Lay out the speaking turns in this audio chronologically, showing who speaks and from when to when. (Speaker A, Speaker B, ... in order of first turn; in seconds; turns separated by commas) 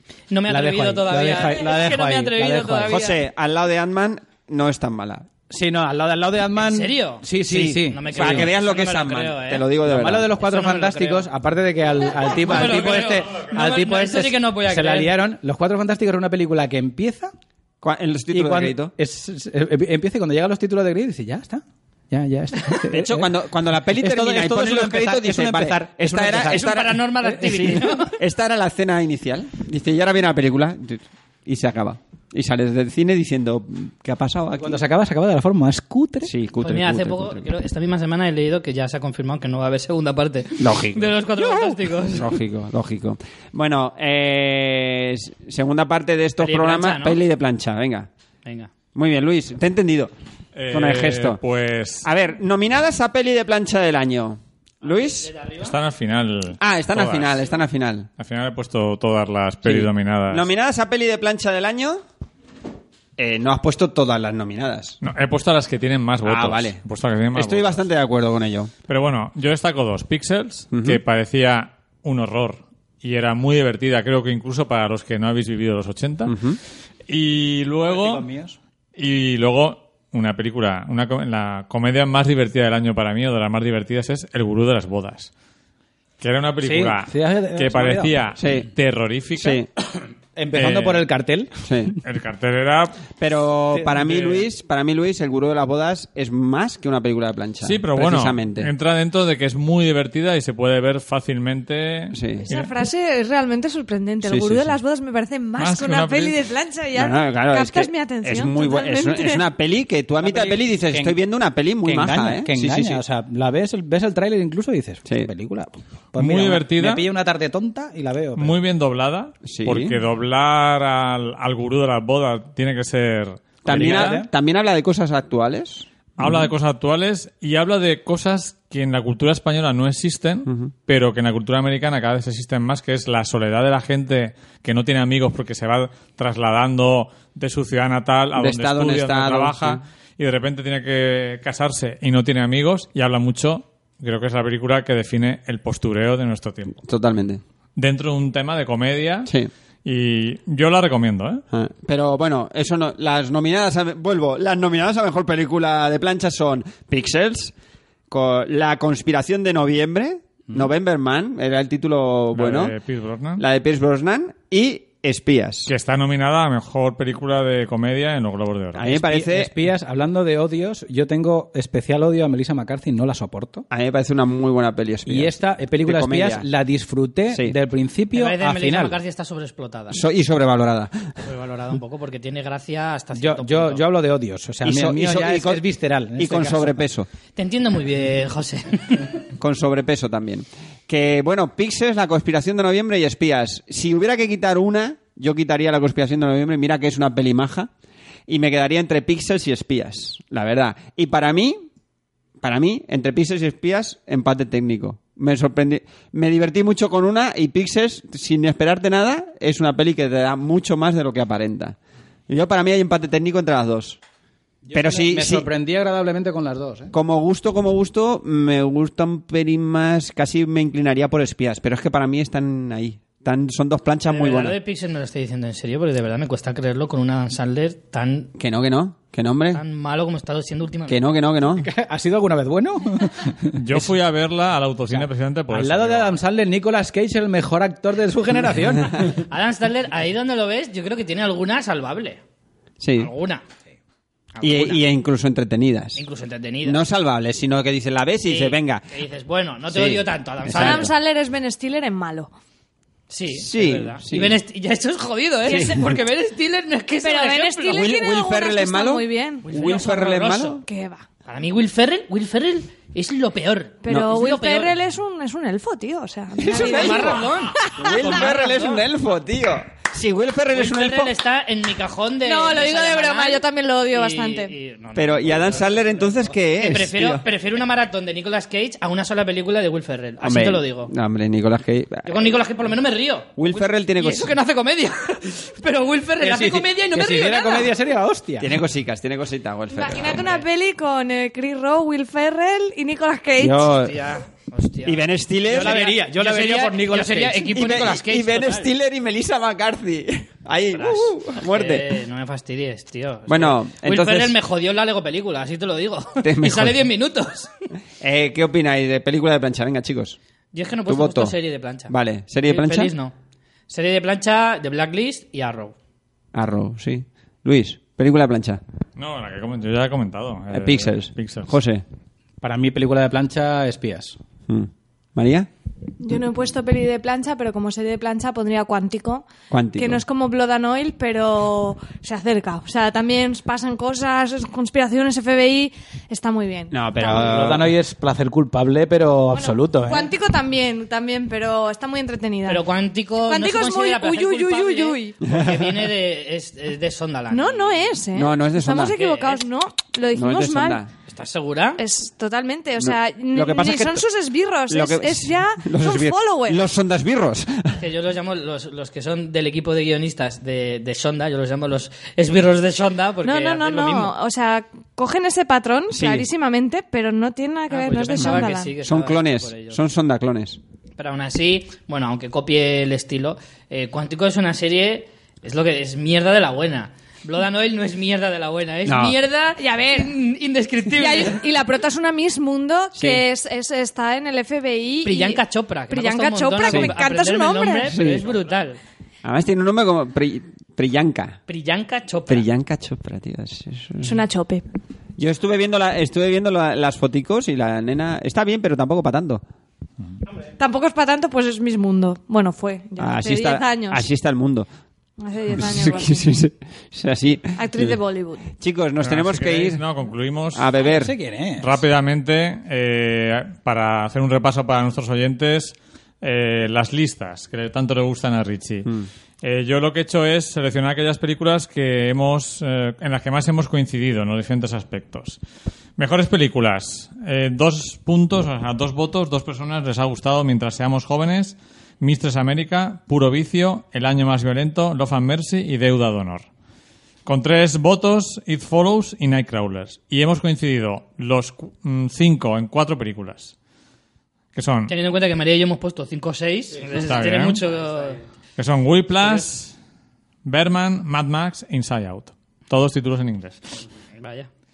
Speaker A: 0.3-3.2, Speaker B: 0.5-3.1, Speaker C: 2.9-5.3, Speaker B: 5.5-8.5, Speaker A: 6.6-9.7, Speaker C: 7.4-10.3, Speaker B: 9.8-17.3, Speaker A: 10.4-11.3, Speaker A: 12.3-15.2, Speaker C: 17.8-18.9, Speaker B: 18.3-23.3, Speaker C: 22.9-34.8, Speaker B: 23.9-27.9, Speaker A: 26.4-28.2, Speaker B: 34.5-36.3, Speaker C: 36.2-37.5, Speaker A: 36.6-42.3, Speaker C: 40.6-48.1, Speaker A: 46.4-47.2, Speaker A: 48.4-48.7, Speaker C: 48.9-50.1, Speaker D: 50.5-52.1, Speaker C: 50.7-51.4, Speaker C: 52.0-55.3, Speaker A: 54.9-55.7, Speaker D: 55.6-57.5, Speaker C: 56.6-58.1, Speaker D: 58.2-60.5, Speaker C: 59.6-62.0, Speaker C: 63.2-65.0, Speaker D: 65.0-67.8, Speaker C: 66.2-66.8, Speaker C: 67.3-68.7, Speaker D: 68.9-76.4, Speaker C: 70.7-71.0, Speaker C: 76.3-76.6, Speaker D: 77.1-78.2, Speaker B: 77.8-78.6, Speaker D: 79.0-85.3, Speaker D: 86.2-89.6, Speaker B: 86.6-88.2, Speaker C: 88.4-88.7, Speaker C: 89.3-89.7, Speaker B: 90.3-91.5, Speaker D: 90.5-91.0, Speaker C: 91.7-91.9, Speaker D: 92.0-93.0, Speaker C: 93.2-98.7, Speaker B: 93.7-94.5, Speaker D: 97.6-102.7, Speaker C: 102.1-102.5, Speaker E: 102.5-109.5, Speaker C: 104.2-104.8, Speaker D: 105.6-106.4, Speaker C: 106.9-113.0, Speaker B: 110.2-111.2, Speaker B: 111.8-118.6, Speaker D: 116.2-117.1, Speaker D: 118.3-124.2, Speaker C: 119.5-120.0, Speaker C: 123.6-125.8, Speaker B: 123.7-124.3, Speaker D: 126.2-146.8, Speaker C: 130.5-130.7, Speaker C: 138.3-139.8, Speaker C: 146.8-147.4, Speaker D: 147.8-149.3, Speaker C: 149.2-149.5, Speaker D: 149.8-151.4, Speaker C: 151.5-157.5, Speaker C: 158.1-162.7, Speaker D: 162.3-163.4, Speaker C: 163.4-165.7, Speaker D: 165.7-168.9, Speaker C: 168.8-169.5, Speaker B: 168.8-173.7, Speaker C: 173.7-176.4, Speaker B: 175.1-179.0, Speaker A: 178.1-180.0, Speaker C: 179.9-181.1, Speaker A: 181.2-183.8, Speaker B: 183.1-186.8, Speaker C: 184.6-185.6, Speaker C: 186.2-187.1, Speaker A: 187.3-189.1, Speaker C: 189.4-197.7, Speaker C: 198.3-201.6, Speaker C: 202.4-211.8, Speaker C: 212.3-214.0, Speaker B: 214.7-216.9, Speaker C: 214.7-215.4, Speaker C: 216.9-224.6, Speaker A: 224.1-228.3, Speaker C: 228.4-229.6, Speaker A: 229.5-231.0, Speaker C: 230.9-231.7, Speaker B: 231.5-233.9, Speaker D: 233.5-236.2, Speaker B: 234.9-239.2, Speaker A: 239.2-242.2, Speaker C: 242.8-243.1, Speaker A: 243.0-243.4, Speaker A: 244.3-244.8, Speaker C: 244.4-246.0, Speaker A: 245.9-246.8, Speaker C: 246.6-248.9, Speaker A: 248.2-250.9, Speaker C: 249.7-250.9, Speaker E: 250.5-252.3, Speaker A: 253.1-257.9, Speaker C: 253.3-254.4, Speaker C: 255.5-255.8, Speaker E: 257.0-259.5, Speaker C: 257.7-260.6, Speaker A: 259.4-260.6, Speaker E: 260.6-261.0, Speaker A: 261.2-264.7, Speaker E: 263.8-268.8, Speaker C: 266.4-271.1, Speaker A: 266.5-268.8, Speaker A: 270.5-280.9, Speaker E: 272.2-274.5, Speaker C: 274.9-277.2, Speaker C: 280.2-282.2, Speaker A: 282.0-287.7, Speaker C: 283.4-284.3, Speaker B: 286.2-288.6, Speaker C: 288.4-290.3, Speaker E: 289.7-293.7, Speaker A: 290.2-290.4, Speaker C: 293.4-293.9, Speaker A: 293.7-298.7, Speaker C: 294.8-295.9, Speaker B: 295.4-297.5, Speaker C: 297.5-301.9, Speaker A: 300.7-307.5, Speaker C: 303.3-304.4, Speaker C: 306.2-306.8, Speaker C: 308.0-310.2, Speaker A: 310.5-313.1, Speaker C: 310.9-311.4, Speaker C: 311.9-312.9, Speaker A: 313.7-315.7, Speaker C: 316.3-318.6, Speaker D: 318.9-321.5, Speaker C: 320.5-321.8, Speaker B: 322.4-324.2, Speaker C: 324.5-325.5, Speaker E: 326.0-337.5, Speaker C: 329.5-330.0, Speaker C: 336.7-337.7, Speaker B: 337.0-340.1, Speaker E: 339.3-342.7, Speaker A: 342.5-347.8, Speaker E: 343.2-345.1, Speaker C: 345.2-345.7, Speaker E: 347.3-350.8, Speaker C: 348.1-348.9, Speaker A: 348.7-349.4, Speaker C: 350.1-350.9, Speaker A: 351.1-351.8, Speaker E: 351.8-356.6, Speaker C: 352.8-354.0, Speaker C: 354.7-357.8, Speaker A: 357.8-364.1, Speaker E: 363.2-368.8, Speaker C: 365.9-366.3, Speaker A: 367.7-369.8, Speaker C: 368.2-370.6, Speaker A: 371.0-381.4, Speaker C: 378.9-379.2, Speaker E: 379.6-380.1, Speaker E: 380.9-387.9, Speaker C: 382.9-383.2, Speaker A: 385.0-388.8, Speaker C: 387.9-388.3, Speaker C: 389.2-391.4, Speaker A: 391.5-392.4, Speaker C: 392.3-394.2, Speaker E: 394.0-394.6, Speaker C: 395.2-399.4, Speaker E: 400.6-404.0, Speaker C: 403.0-404.7, Speaker E: 405.2-406.4, Speaker C: 405.5-407.9, Speaker E: 407.6-408.4, Speaker C: 408.6-409.8, Speaker D: 409.0-410.7, Speaker C: 410.5-411.1, Speaker B: 410.8-411.8, Speaker D: 411.6-418.9, Speaker D: 419.4-425.4, Speaker D: 426.0-436.4, Speaker D: 437.2-443.5, Speaker D: 444.5-444.9, Speaker A: 444.9-448.2, Speaker D: 446.9-447.6, Speaker D: 448.6-449.7, Speaker D: 450.4-453.8, Speaker A: 454.1-454.5